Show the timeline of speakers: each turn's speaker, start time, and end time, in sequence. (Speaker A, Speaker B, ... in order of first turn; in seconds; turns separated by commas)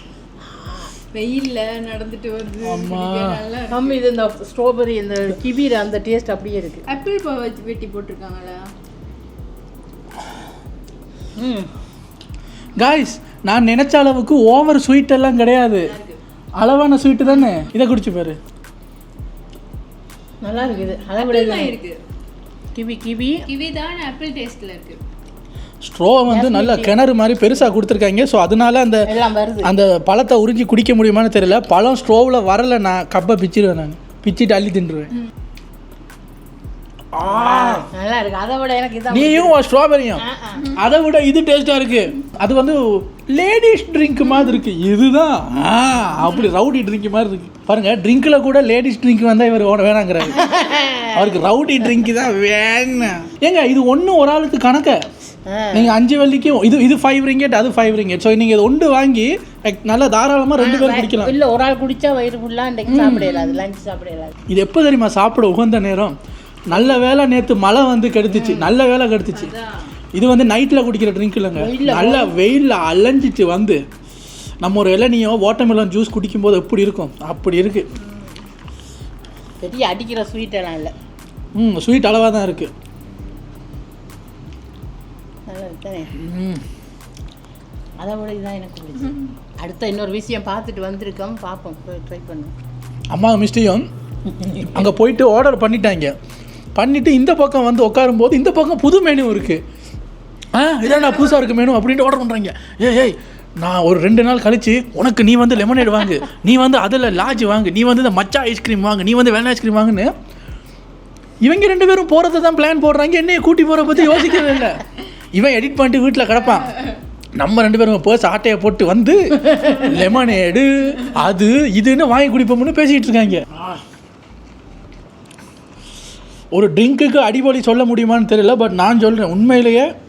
Speaker A: 0.5-0.9, Speaker B: 1.1-4.0, Speaker C: 2.6-3.4, Speaker A: 3.7-6.8, Speaker B: 6.9-8.7, Speaker A: 11.4-11.7, Speaker C: 12.8-15.9, Speaker B: 15.9-16.2, Speaker C: 16.6-18.4, Speaker A: 20.4-21.8, Speaker B: 20.6-22.0, Speaker A: 22.7-23.4, Speaker B: 23.4-25.0, Speaker C: 25.8-29.1, Speaker A: 26.3-27.0, Speaker A: 29.1-29.7, Speaker C: 29.6-35.1, Speaker C: 37.1-37.8, Speaker A: 37.2-39.6, Speaker C: 39.1-50.5, Speaker A: 40.2-40.8, Speaker A: 50.3-51.4, Speaker C: 51.1-55.0, Speaker A: 55.5-56.0, Speaker C: 55.7-61.3, Speaker A: 60.6-64.3, Speaker C: 62.9-63.3, Speaker C: 64.5-66.1, Speaker C: 66.7-69.5, Speaker A: 68.3-68.7, Speaker B: 69.4-69.8, Speaker C: 70.1-73.8, Speaker A: 71.5-72.3, Speaker C: 74.6-77.8, Speaker A: 79.6-80.9, Speaker C: 81.5-82.7, Speaker A: 85.5-86.1, Speaker C: 86.2-86.6, Speaker A: 88.0-92.5, Speaker C: 93.1-93.8, Speaker A: 94.4-94.9, Speaker C: 94.4-96.1, Speaker C: 96.8-99.6, Speaker C: 100.5-110.1, Speaker C: 111.4-123.8, Speaker C: 126.5-129.9